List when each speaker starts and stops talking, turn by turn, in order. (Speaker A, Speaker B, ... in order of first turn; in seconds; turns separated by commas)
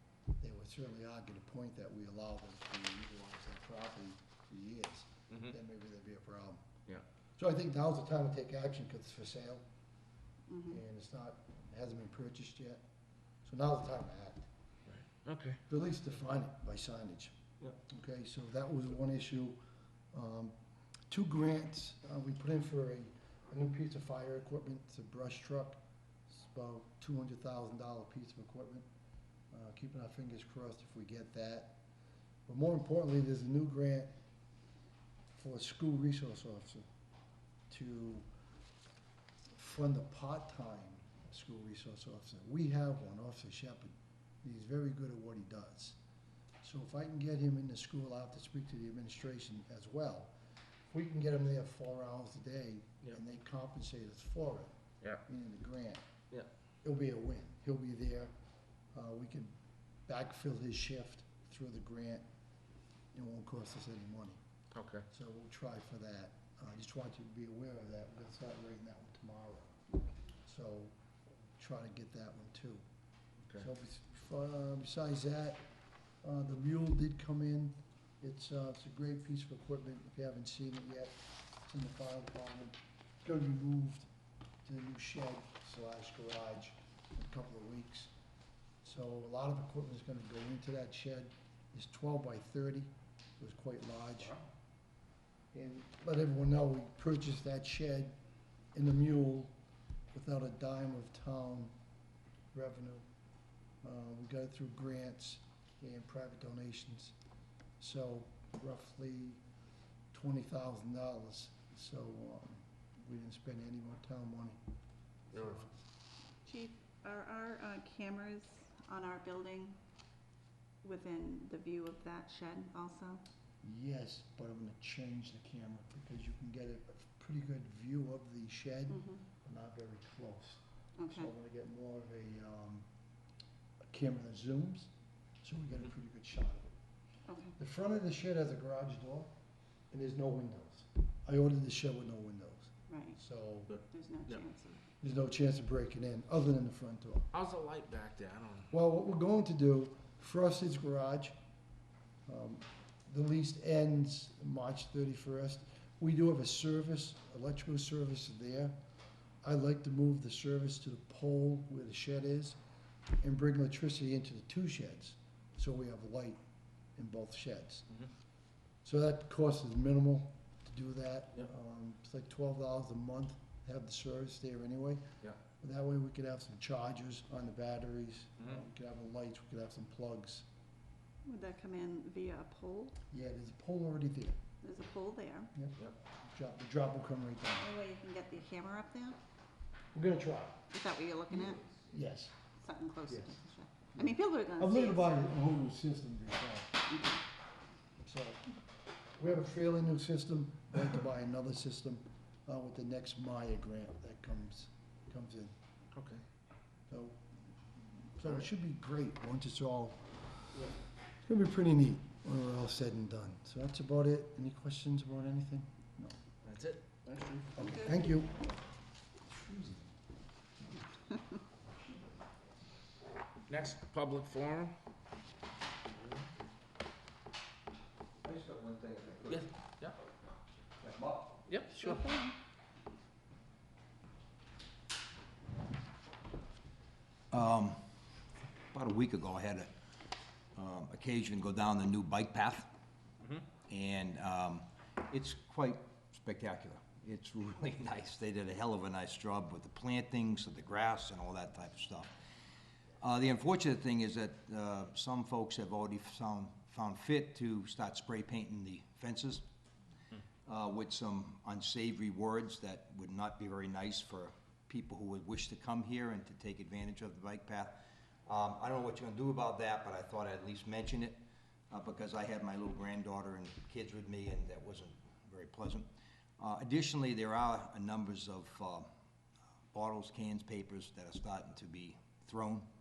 Speaker A: 0.4-6.6, Speaker A: 7.4-9.6, Speaker B: 10.5-10.8, Speaker A: 10.7-12.8, Speaker A: 13.4-14.4, Speaker C: 14.9-15.6, Speaker A: 15.7-17.3, Speaker A: 17.9-19.6, Speaker A: 20.1-20.5, Speaker A: 21.1-28.9, Speaker A: 29.5-31.8, Speaker A: 32.5-34.1, Speaker A: 35.3-36.9, Speaker A: 37.7-38.2, Speaker A: 39.5-46.0, Speaker A: 46.6-50.3, Speaker A: 50.9-54.7, Speaker A: 55.2-56.0, Speaker A: 56.8-58.3, Speaker A: 58.9-59.5, Speaker A: 60.1-62.2, Speaker A: 63.1-64.4, Speaker C: 64.7-65.0, Speaker A: 65.1-69.7, Speaker A: 70.4-70.9, Speaker A: 71.6-72.8, Speaker A: 73.6-75.6, Speaker A: 76.2-84.1, Speaker A: 84.6-88.1, Speaker A: 88.8-94.4, Speaker A: 95.5-98.2, Speaker A: 98.7-99.5, Speaker A: 100.1-101.7, Speaker A: 102.5-103.0, Speaker A: 103.8-107.1, Speaker A: 107.8-109.4, Speaker A: 110.1-114.6, Speaker A: 115.3-115.7, Speaker C: 115.3-115.6, Speaker B: 116.4-119.8, Speaker B: 120.8-123.2, Speaker A: 123.6-132.8, Speaker B: 128.9-129.2, Speaker B: 131.0-131.3, Speaker A: 133.9-134.9, Speaker A: 135.4-136.7, Speaker B: 137.3-137.5, Speaker A: 137.6-139.3, Speaker A: 139.9-143.7, Speaker B: 142.9-143.2, Speaker C: 143.7-144.4, Speaker B: 143.9-144.8, Speaker A: 145.0-147.3, Speaker C: 147.3-148.7, Speaker A: 148.7-151.3, Speaker A: 152.3-158.8, Speaker A: 159.4-162.6, Speaker A: 163.2-166.4, Speaker A: 167.0-167.8, Speaker A: 168.8-175.0, Speaker A: 175.6-180.4, Speaker B: 181.2-182.9, Speaker A: 183.1-184.4, Speaker B: 184.6-185.5, Speaker A: 186.3-187.7, Speaker B: 187.6-189.2, Speaker A: 189.9-190.7, Speaker B: 190.7-191.6, Speaker A: 191.9-192.3, Speaker B: 192.6-195.1, Speaker A: 193.1-193.4, Speaker A: 193.9-197.0, Speaker A: 198.0-198.4, Speaker A: 199.2-205.5, Speaker C: 205.9-206.2, Speaker A: 206.9-207.2, Speaker A: 208.2-210.0, Speaker A: 211.2-216.2, Speaker C: 216.4-217.8, Speaker A: 217.6-218.3, Speaker C: 223.5-224.8, Speaker D: 228.2-229.5, Speaker C: 229.3-229.9, Speaker D: 230.8-231.5, Speaker C: 231.5-232.0, Speaker B: 231.7-232.3, Speaker D: 237.3-237.8, Speaker D: 238.7-239.7, Speaker D: 240.6-242.7, Speaker D: 243.7-252.1, Speaker D: 253.0-259.4, Speaker D: 260.4-275.9, Speaker D: 276.4-278.9, Speaker D: 279.7-282.7